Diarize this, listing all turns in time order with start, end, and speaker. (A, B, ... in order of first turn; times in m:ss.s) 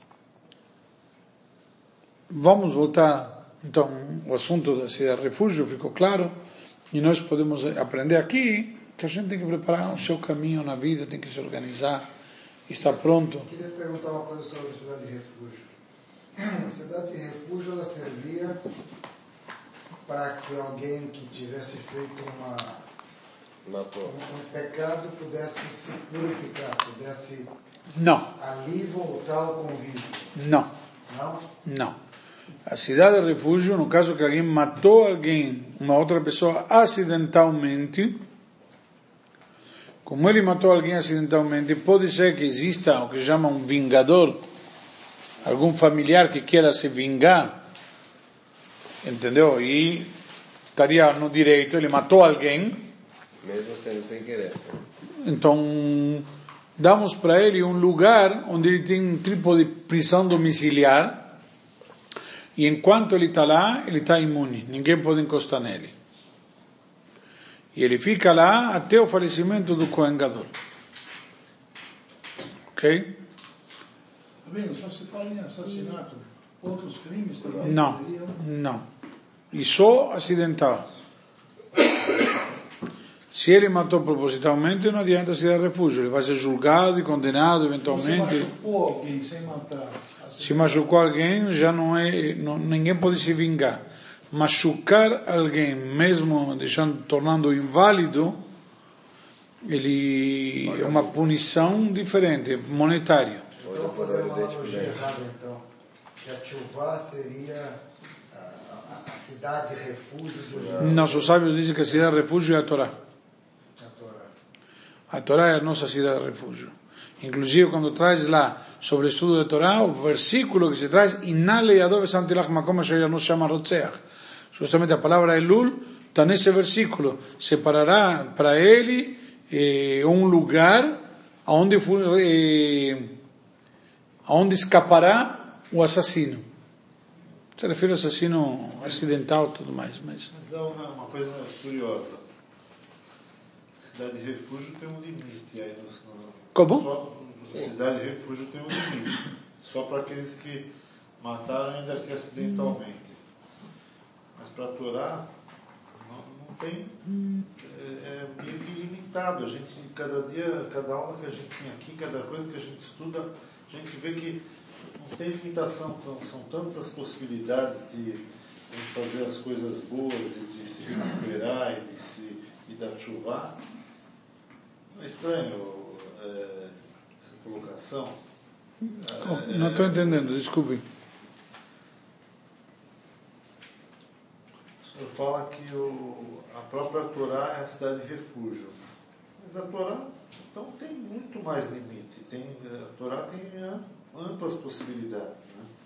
0:02.3-0:06.3 A
0:06.9-0:12.1 A
0:12.7-0:13.5 A
0:13.4-0:15.7 B
0:16.4-0:18.6 B
0:20.1-0:22.8 B
0:23.6-0:24.2 C
0:24.0-0:27.5 B
0:28.0-0:28.3 A
0:28.4-0:30.4 B
0:30.4-0:30.7 A
0:31.1-0:31.5 B
0:31.6-0:32.0 A
0:32.7-0:38.2 A
0:40.0-0:44.4 A
0:45.4-0:47.6 A
0:49.0-0:50.1 A
0:50.8-0:52.9 A
0:53.4-0:54.8 C
0:55.2-0:56.3 A
0:56.8-1:01.4 A
1:02.6-1:05.9 A
1:07.8-1:10.5 A
1:12.7-1:13.2 A
1:14.4-1:18.4 D
1:17.6-1:18.8 A
1:19.5-1:20.9 A
1:23.3-1:28.5 A
1:27.8-1:30.8 D
1:30.4-1:38.4 A
1:39.6-1:43.5 A
1:43.6-1:45.7 B
1:43.6-1:45.1 C
1:46.2-1:51.4 B
1:50.8-1:52.9 A
1:53.8-1:54.3 B
1:55.1-2:04.0 A
2:04.5-2:13.1 A
2:14.3-2:16.4 A
2:17.6-2:20.3 A
2:20.3-2:22.2 E
2:23.8-2:30.7 E
2:26.5-2:26.9 A
2:31.2-2:33.2 E
2:34.4-2:35.3 E
2:36.0-2:37.0 E
2:37.6-2:44.4 E
2:45.0-2:53.6 E
2:55.0-2:58.2 E
2:58.9-3:00.8 A
2:59.0-3:00.3 E
3:04.8-3:08.8 E
3:09.4-3:15.7 E